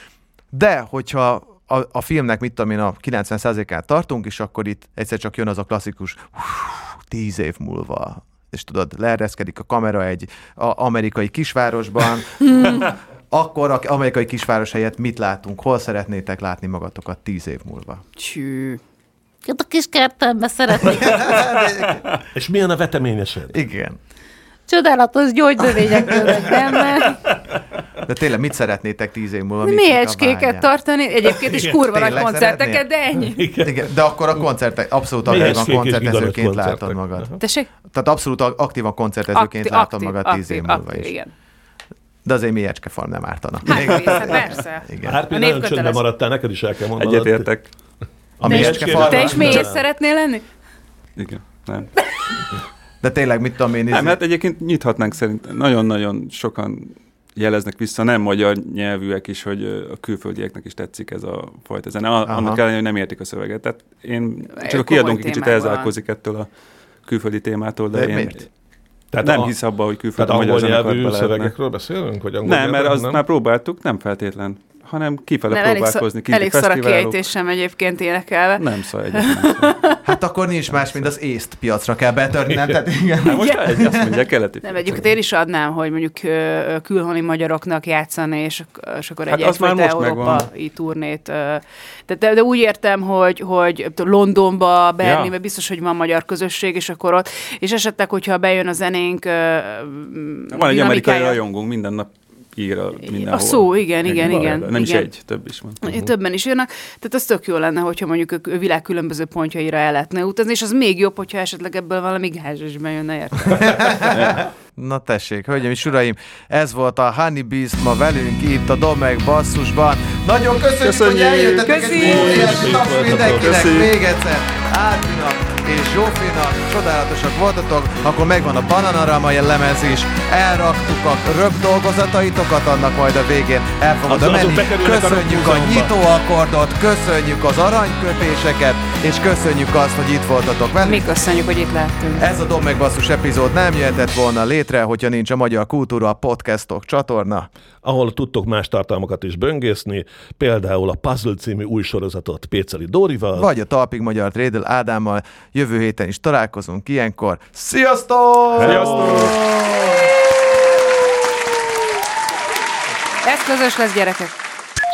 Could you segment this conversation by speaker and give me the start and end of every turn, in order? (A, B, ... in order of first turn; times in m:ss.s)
0:00.5-0:18.0 A
0:12.6-0:12.8 B
0:18.2-0:18.8 B
0:19.4-0:21.5 C
0:20.8-0:22.1 A
0:22.4-0:23.6 D
0:23.5-0:24.0 A
0:24.7-0:27.1 C
0:25.7-0:27.2 B
0:28.1-0:30.7 A
0:29.6-0:33.4 B
0:31.4-0:31.8 D
0:31.6-0:32.8 A
0:33.1-0:33.9 D
0:33.6-0:41.1 A
0:35.2-0:37.4 D
0:37.4-0:37.7 B
0:39.3-0:41.3 B
0:42.2-0:45.2 A
0:43.7-0:46.0 B
0:45.0-0:47.5 D
0:47.0-0:47.7 E
0:48.4-0:49.8 D
0:48.4-0:49.7 A
0:48.5-0:50.4 B
0:51.2-0:51.9 E
0:53.0-0:54.2 A
0:53.9-1:06.5 E
1:02.3-1:02.6 A
1:04.6-1:05.9 B
1:07.0-1:08.5 E
1:07.9-1:08.4 A
1:09.1-1:09.5 D
1:09.2-1:11.5 E
1:10.2-1:13.2 D
1:12.4-1:17.2 E
1:15.5-1:20.0 B
1:18.6-1:19.8 E
1:20.0-1:24.2 A
1:23.2-1:25.1 E
1:23.4-1:23.6 B
1:24.6-1:41.4 B
1:29.3-1:30.5 E
1:35.0-1:35.3 E
1:40.5-1:45.8 E
1:43.0-1:45.1 B
1:44.2-1:44.6 D
1:45.8-1:54.0 B
1:53.5-2:21.1 A
1:54.1-1:54.4 E
2:00.8-2:02.6 E
2:01.6-2:02.4 B
2:02.0-2:03.7 D
2:03.2-2:03.9 E
2:14.1-2:15.9 D
2:20.8-2:22.3 B
2:22.2-2:27.5 A
2:27.8-2:33.5 D
2:33.4-2:39.8 A
2:38.6-2:39.4 D
2:38.6-2:39.4 E
2:43.2-2:44.4 B